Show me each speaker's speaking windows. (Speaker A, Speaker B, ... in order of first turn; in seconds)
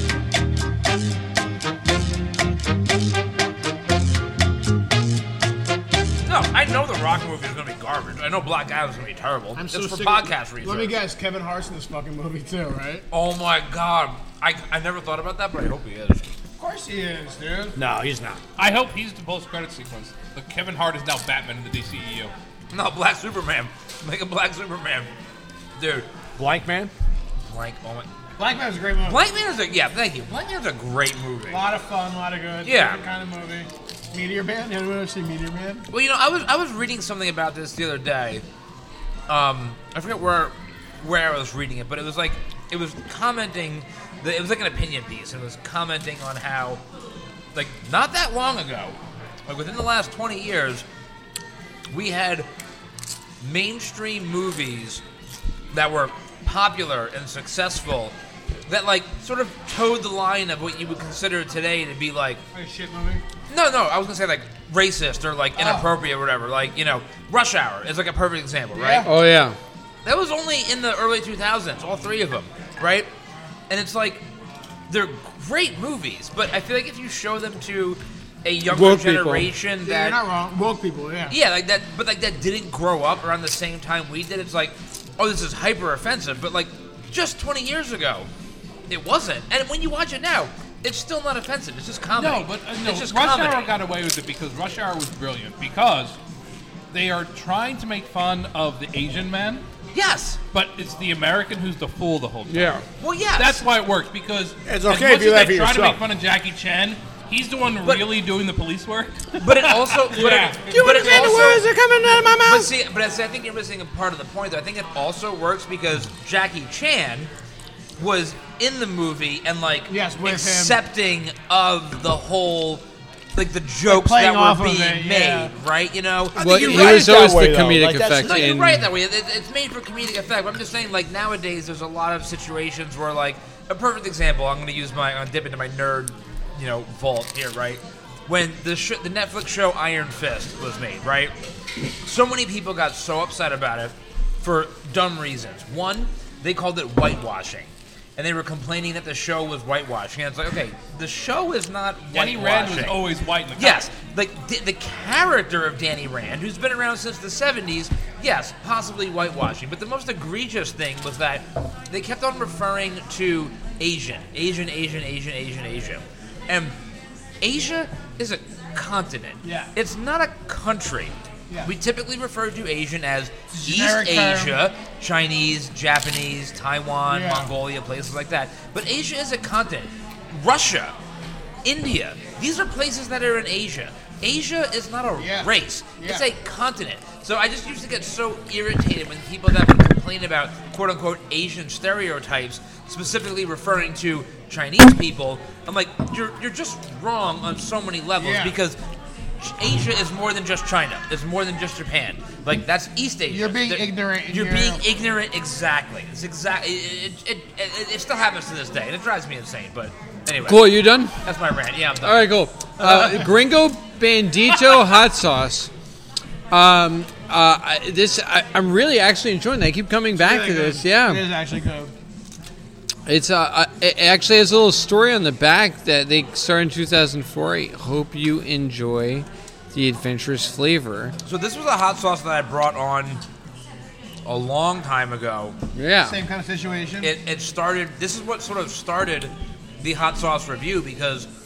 Speaker A: 6.2-10.9, 13.1-16.2, 22.7-25.1, 25.8-26.1, 27.5-28.1, 29.1-31.6, 32.6-33.0, 35.9-38.4, 39.3-46.8, 47.5-50.9, 51.9-52.5, 53.4-55.0, 55.7-58.1, 58.7-62.4, 63.5-69.1, 70.0-73.1, 73.7-74.2, 74.9-80.2, 81.3-88.3, 88.9-93.7, 99.9-100.4, 103.0-103.6, 107.8-108.1, 109.4-111.6, 112.4-117.3, 118.0-122.8, 123.3-127.2, 128.2-141.3, 142.0-166.7, 167.4-180.9, 181.6-198.8, 199.4-213.3, 231.2-233.2, 234.2-235.6, 237.0-241.3
Speaker B: 9.6-13.0, 16.6-17.8, 28.4-29.2, 31.5-35.9, 62.5-63.2, 65.6-65.9, 68.7-69.1, 79.8-81.3, 110.2-111.6, 119.9-120.8, 123.9-125.5, 169.4-169.7, 173.5-174.6, 177.1-177.5, 185.2-186.2, 198.2-198.6, 203.3-204.8, 220.2-221.9, 236.1-237.1
Speaker C: 17.8-18.4, 26.4-26.9, 104.6-106.0, 126.3-128.5
Speaker D: 18.6-22.3, 92.1-96.2, 96.9-99.6, 100.5-102.8, 103.3-111.3, 152.1-153.9
Speaker E: 69.0-69.6, 78.7-79.5, 102.5-102.8, 110.7-112.7, 126.4-128.9, 210.4-211.1, 212.0-215.7, 216.5-221.2, 223.1-231.1, 235.7-236.2